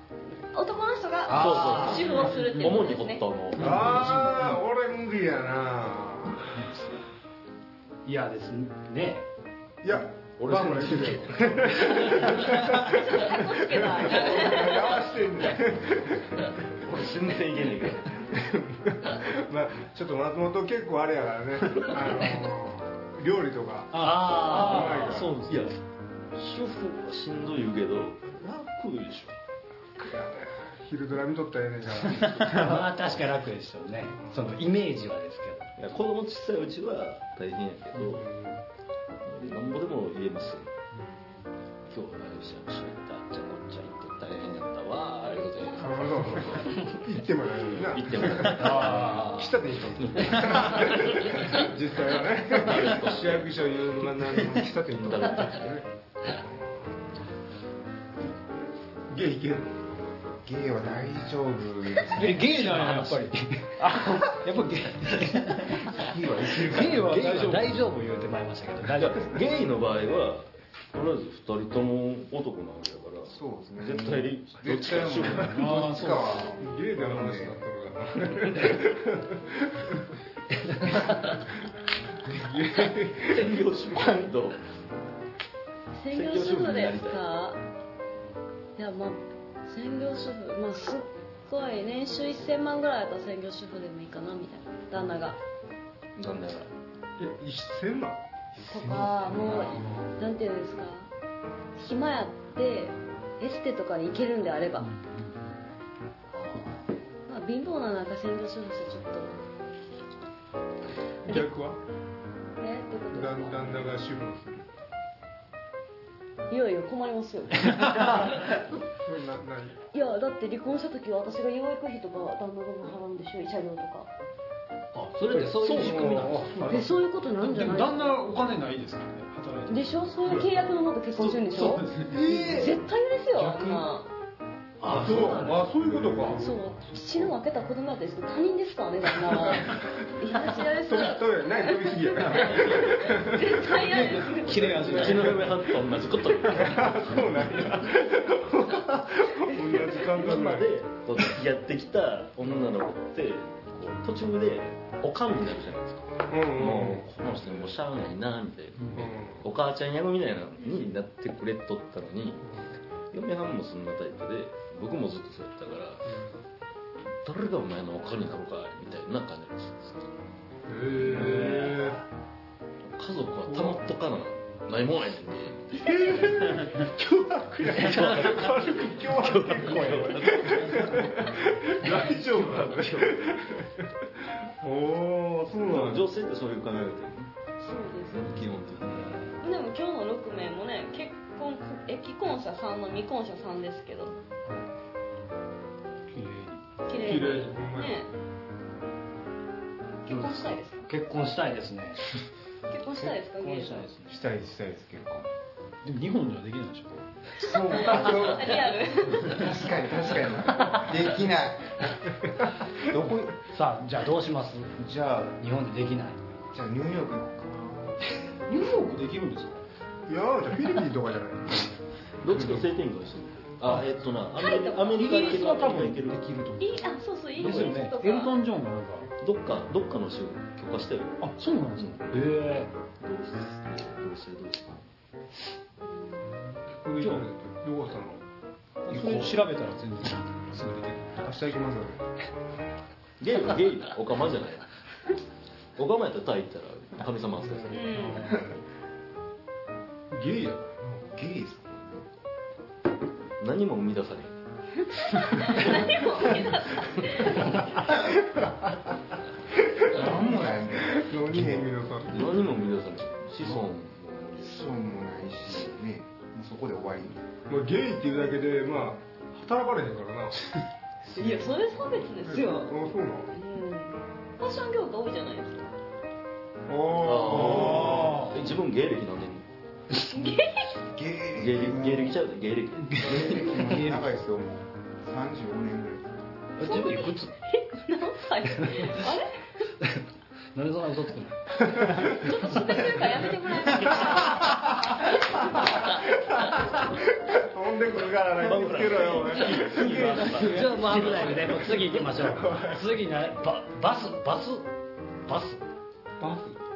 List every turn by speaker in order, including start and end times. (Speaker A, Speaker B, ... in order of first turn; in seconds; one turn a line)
Speaker A: 0.4-3.2
Speaker B: 1.2-2.1
Speaker C: 1.3-4.1
Speaker D: 3.5-4.5
Speaker E: 3.6-6.7
Speaker B: 8.1-9.2
Speaker E: 9.8-16.6
Speaker C: 10.4-12.6
Speaker A: 12.8-15.0
Speaker C: 16.8-18.2
Speaker E: 18.3-25.4
Speaker D: 23.9-25.7
Speaker B: 24.0-25.2
Speaker C: 25.4-25.8
Speaker C: 26.3-29.4
Speaker E: 29.9-32.8
Speaker D: 32.3-32.7
Speaker B: 32.5-35.7
Speaker E: 34.2-34.5
Speaker C: 35.8-38.3
Speaker E: 38.0-38.6
Speaker C: 39.2-40.7
Speaker C: 41.9-46.9
Speaker E: 45.8-56.6
Speaker C: 47.7-49.1
Speaker B: 48.4-49.6
Speaker C: 50.0-51.5
Speaker C: 52.5-53.5
Speaker C: 54.7-55.8
Speaker E: 59.1-59.8
Speaker F: 60.4-62.6
Speaker D: 62.2-65.9
Speaker B: 62.4-63.7
Speaker F: 65.9-67.2
Speaker D: 66.6-67.8
Speaker B: 66.7-69.4
Speaker C: 69.0-75.8
Speaker F: 73.2-77.6
Speaker D: 75.4-76.5
Speaker E: 76.6-80.0
Speaker E: 80.8-81.1
Speaker E: 82.3-83.5
Speaker C: 83.2-84.6
Speaker A: 86.0-87.6
Speaker C: 86.1-87.2
Speaker A: 88.8-95.4
Speaker C: 96.2-96.7
Speaker E: 97.2-98.2
Speaker A: 98.7-101.1
Speaker F: 98.7-99.7
Speaker C: 99.3-99.7
Speaker E: 99.6-100.2
Speaker A: 101.8-104.9
Speaker D: 104.9-105.2
Speaker B: 106.3-106.8
Speaker A: 107.3-109.3
Speaker E: 111.2-111.8
Speaker A: 112.6-113.7
Speaker E: 113.1-114.7
Speaker A: 116.5-118.6
Speaker E: 119.0-119.8
Speaker A: 119.9-124.1
Speaker B: 124.9-126.8
Speaker E: 125.6-126.6
Speaker D: 125.6-132.8
Speaker A: 126.7-128.2
Speaker A: 129.7-131.9
Speaker E: 132.1-132.8
Speaker A: 132.5-134.1
Speaker D: 133.4-133.8
Speaker B: 134.8-135.6
Speaker E: 134.9-136.6
Speaker A: 136.3-145.3
Speaker E: 139.4-139.8
Speaker E: 140.8-144.0
Speaker D: 143.8-145.6
Speaker E: 144.8-145.4
Speaker C: 144.8-147.6
Speaker E: 146.5-150.7
Speaker C: 149.7-162.4
Speaker E: 156.3-157.1
Speaker E: 158.9-159.4
Speaker C: 163.1-166.0
Speaker E: 166.1-166.4
Speaker C: 167.2-170.1
Speaker E: 170.7-172.0
Speaker C: 171.0-171.8
Speaker B: 171.2-171.9
Speaker C: 172.8-176.0
Speaker E: 173.5-173.8
Speaker E: 175.8-186.1
Speaker C: 177.6-181.2
Speaker C: 181.8-183.2
Speaker C: 185.6-187.3
Speaker A: 187.6-188.4
Speaker C: 188.1-189.2
Speaker A: 189.4-194.2
Speaker D: 196.1-196.7
Speaker A: 196.9-198.1
Speaker E: 196.9-198.0
Speaker A: 200.0-200.8
Speaker B: 200.1-202.0
Speaker A: 202.7-203.9
Speaker B: 203.1-204.2
Speaker F: 204.1-205.3
Speaker D: 205.8-207.0
Speaker F: 207.4-208.7
Speaker A: 207.7-209.5
Speaker F: 209.2-211.8
Speaker F: 212.8-213.4
Speaker B: 213.5-214.8
Speaker F: 214.8-215.4
Speaker B: 215.4-216.2
Speaker F: 216.5-218.0
Speaker D: 218.5-219.6
Speaker E: 220.1-221.7
Speaker C: 222.2-226.2
Speaker E: 222.3-222.6
Speaker D: 223.6-223.9
Speaker A: 224.4-225.7
Speaker D: 224.9-229.1
Speaker A: 226.6-228.3
Speaker C: 227.4-227.8
Speaker C: 229.2-232.2
Speaker D: 231.2-232.0
Speaker B: 232.1-232.7
Speaker C: 233.0-234.8
Speaker A: 235.8-236.2
Speaker E: 236.7-238.2
Speaker C: 237.0-237.2
Speaker D: 238.8-241.2
Speaker F: 238.9-239.2
Speaker E: 241.2-242.0
Speaker C: 243.2-244.7
Speaker C: 245.8-248.2
Speaker E: 247.5-248.4
Speaker A: 247.7-248.4
Speaker E: 250.1-251.0
Speaker F: 251.0-252.1
Speaker C: 253.4-254.3
Speaker A: 254.9-257.8
Speaker C: 255.5-255.9
Speaker E: 258.0-258.7
Speaker E: 259.7-262.4
Speaker F: 259.9-261.6
Speaker C: 262.1-264.6
Speaker F: 264.4-267.2
Speaker E: 267.5-270.4
Speaker A: 271.1-272.8
Speaker E: 272.3-273.3
Speaker A: 273.3-275.7
Speaker E: 276.7-278.2
Speaker C: 277.0-279.4
Speaker D: 277.9-278.3
Speaker A: 279.9-280.7
Speaker F: 280.9-282.2
Speaker C: 281.4-283.6
Speaker D: 282.9-284.1
Speaker F: 283.0-286.1
Speaker B: 286.6-287.3
Speaker A: 286.6-289.5
Speaker C: 286.6-287.2
Speaker B: 290.5-292.1
Speaker E: 291.8-292.1
Speaker A: 292.0-295.8
Speaker E: 296.0-300.6
Speaker C: 298.4-302.0
Speaker D: 300.0-300.8
Speaker B: 300.3-304.7
Speaker E: 302.0-302.9
Speaker B: 305.2-305.6
Speaker E: 306.2-306.6